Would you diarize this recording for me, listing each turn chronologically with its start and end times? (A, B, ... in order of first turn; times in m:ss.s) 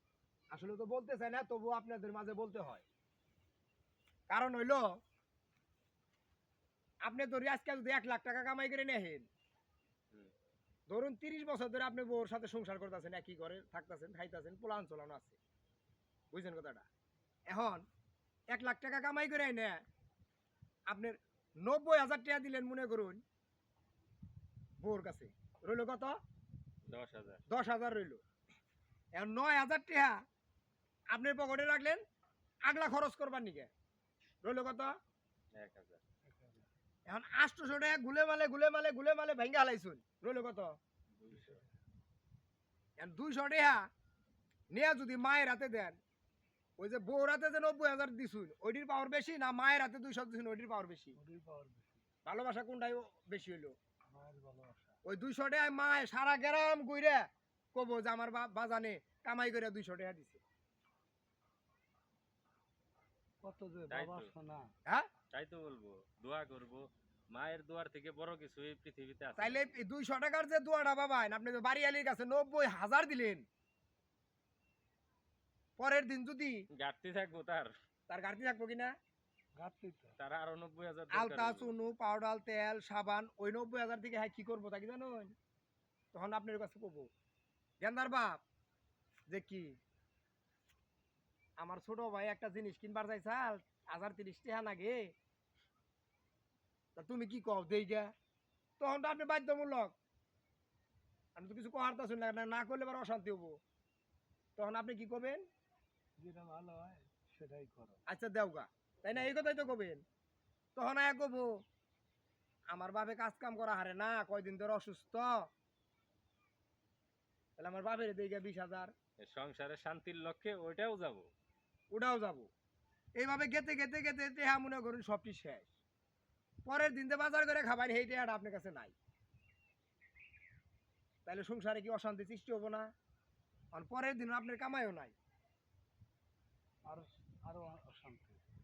0:00.5-0:02.8 A
0:04.3-0:04.9 A
0:07.0-0:09.2 A
0:10.9-0:15.4 A
0:16.3-0:16.9 A
0:17.5-0:17.8 A
0:18.5-0:19.8 A
0:20.9-0:23.2 A
0:24.8-0:26.2 A
0:26.9-0:27.4 B
0:27.5-0:28.2 A
0:29.2-0:30.2 A
0:31.1-0:32.0 A
0:32.6-0:33.7 A
0:34.4-0:34.9 A
0:35.6-0:36.0 B
0:36.3-0:36.7 C
0:37.1-0:40.8 A
0:41.1-0:41.6 B
0:41.3-0:41.7 C
0:43.0-0:43.8 A
0:44.7-0:46.0 A
0:46.8-0:51.2 A
0:51.2-0:52.0 C
0:52.3-0:53.8 A
0:54.1-0:55.0 C
0:55.1-1:00.4 A
1:03.4-1:04.7 C
1:03.9-1:04.3 B
1:05.3-1:09.7 B
1:09.4-1:13.4 A
1:15.8-1:16.6 A
1:16.7-1:17.7 B
1:18.1-1:18.9 A
1:19.6-1:20.2 C
1:20.2-1:21.7 B
1:21.1-1:25.3 A
1:26.1-1:27.1 A
1:27.8-1:28.4 A
1:29.3-1:29.7 A
1:31.6-1:35.1 A
1:37.0-1:38.1 A
1:38.8-1:40.0 A
1:41.4-1:43.6 A
1:44.6-1:45.4 A
1:46.2-1:48.0 C
1:48.1-1:50.0 A
1:50.8-1:51.5 A
1:52.7-1:55.4 A
1:57.6-1:58.9 A
1:59.2-2:01.3 B
2:01.9-2:02.5 A
2:03.2-2:05.7 A
2:06.6-2:08.9 A
2:11.3-2:12.9 A
2:13.7-2:15.1 A
2:16.8-2:18.4 C